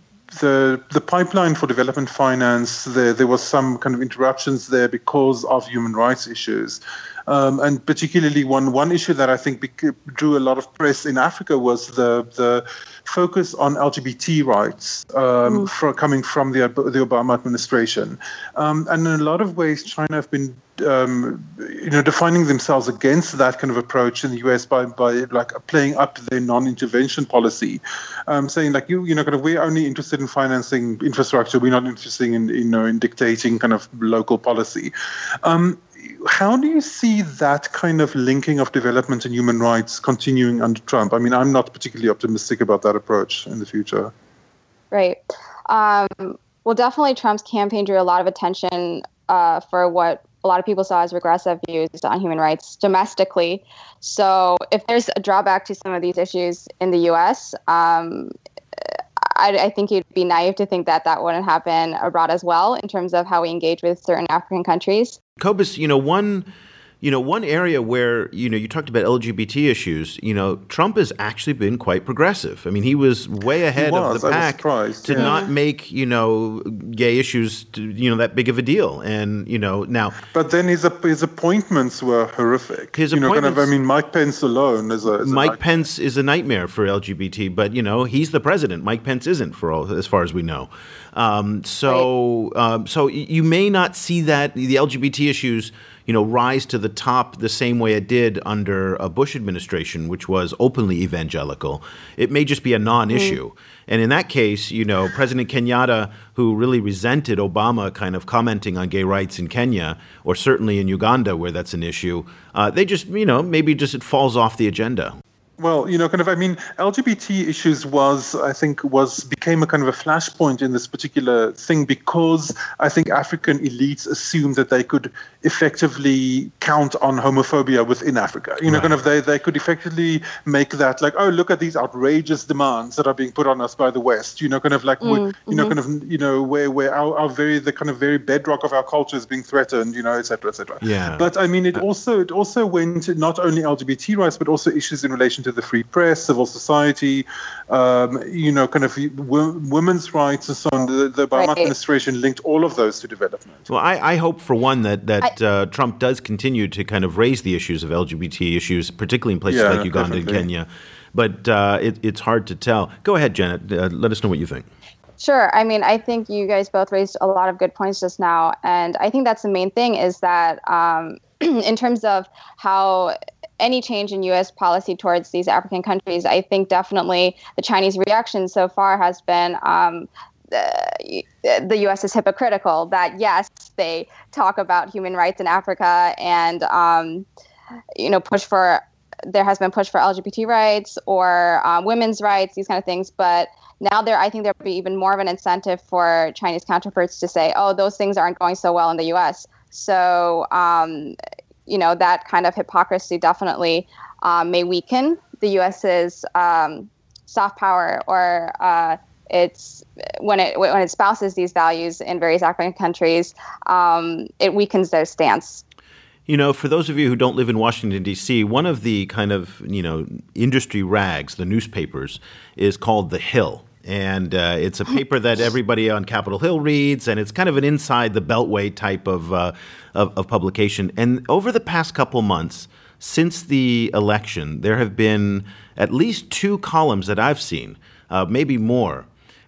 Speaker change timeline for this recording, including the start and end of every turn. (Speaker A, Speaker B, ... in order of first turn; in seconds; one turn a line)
Speaker A: 0.3-44.1
Speaker B: 44.9-58.3
Speaker B: 59.2-65.2
Speaker C: 65.4-66.5
Speaker C: 67.0-80.2
Speaker A: 73.8-75.3
Speaker B: 75.2-75.5
Speaker A: 80.3-85.6
Speaker C: 83.0-83.7
Speaker C: 85.2-115.2
Speaker B: 103.1-103.4
Speaker A: 115.6-153.7
Speaker C: 128.7-128.9
Speaker B: 135.0-135.8
Speaker C: 140.8-141.3
Speaker B: 151.3-151.7
Speaker C: 153.7-164.7
Speaker A: 159.5-160.5
Speaker B: 165.2-187.3
Speaker B: 188.0-201.2
Speaker B: 201.7-215.6
Speaker C: 216.3-239.1